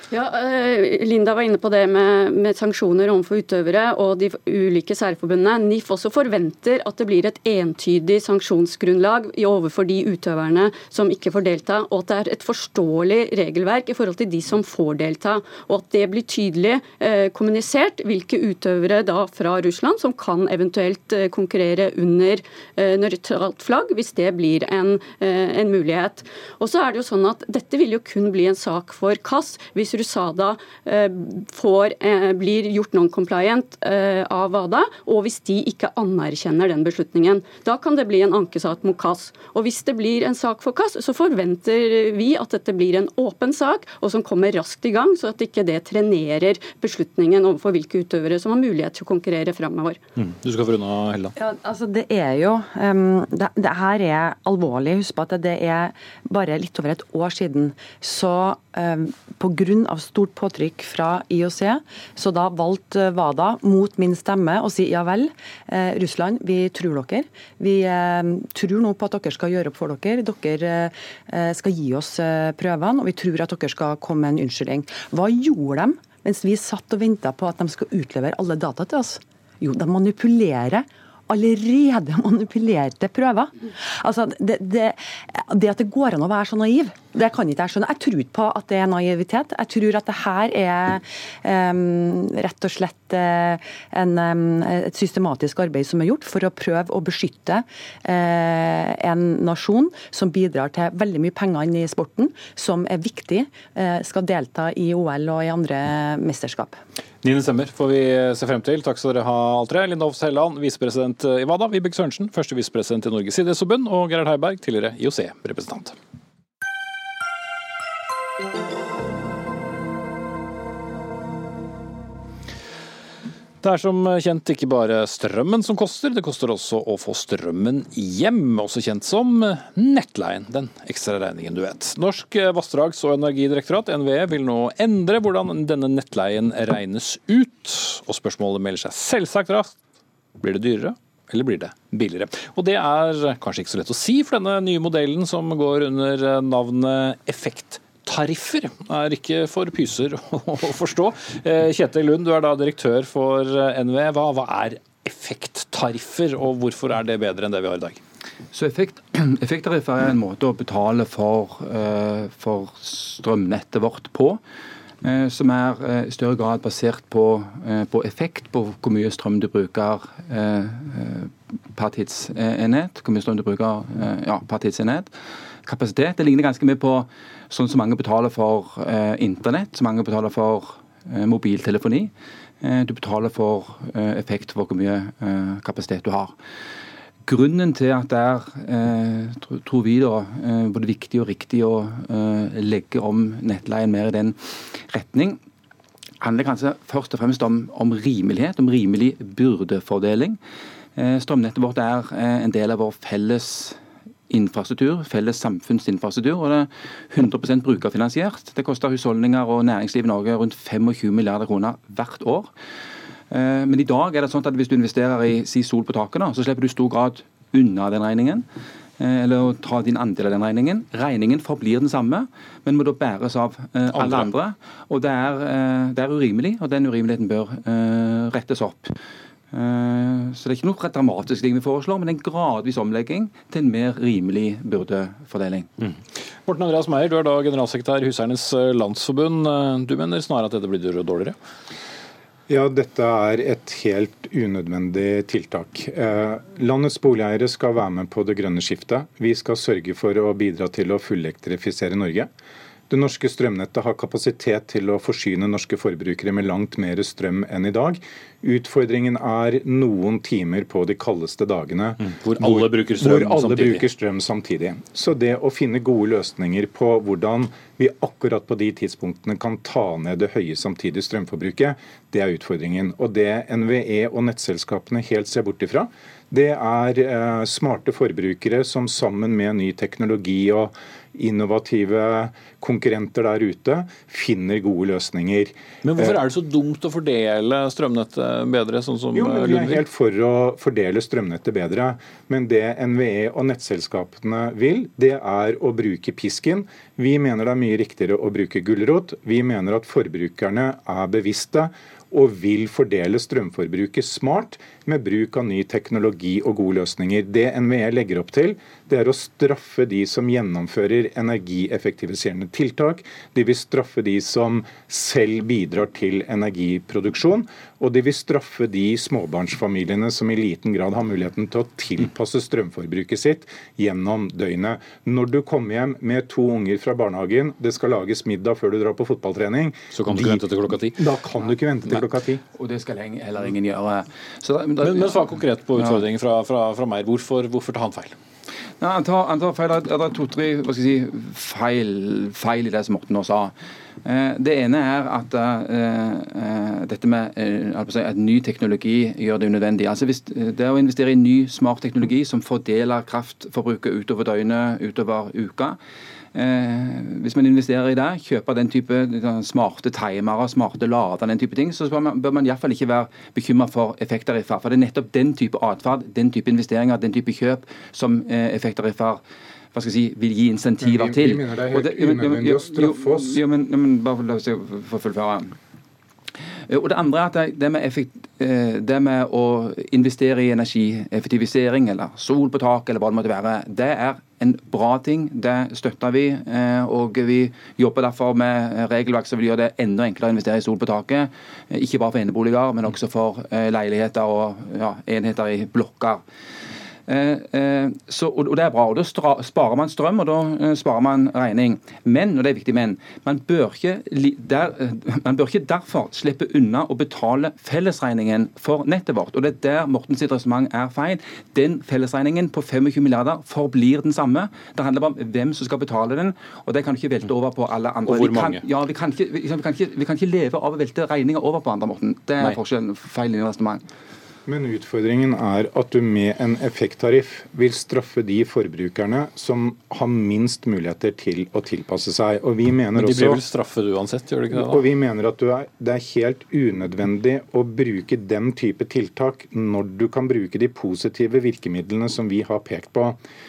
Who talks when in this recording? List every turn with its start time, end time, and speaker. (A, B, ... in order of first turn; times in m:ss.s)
0:00.1-0:50.0 A
0:50.2-0:51.4 B
0:51.4-1:46.8 C
1:47.2-1:56.0 B
2:03.6-2:19.8 B
2:20.4-2:38.0 B
2:38.5-2:44.4 D
2:45.0-2:55.1 D
2:55.6-3:06.3 D
3:07.2-3:15.4 D
3:16.2-3:20.4 D
3:21.0-3:32.5 D
3:33.3-3:38.5 D
3:39.0-3:49.0 D
3:43.9-3:44.3 B
3:49.5-3:55.7 D
3:55.8-4:01.4 B
4:02.5-4:12.3 E
4:12.9-4:46.2 E
4:22.0-4:23.8 B
4:45.8-4:49.8 B
4:49.1-5:32.4 E
5:29.9-5:31.0 B
5:32.4-5:36.0 D
5:34.8-5:38.2 B
5:38.8-5:55.8 D
5:56.3-6:09.2 D
6:09.7-6:15.5 D
6:10.8-6:13.4 E
6:16.7-6:36.2 D
6:37.1-7:03.8 D
6:58.1-6:58.6 B
7:04.5-7:13.4 E
7:13.0-7:14.8 B
7:14.5-7:23.2 E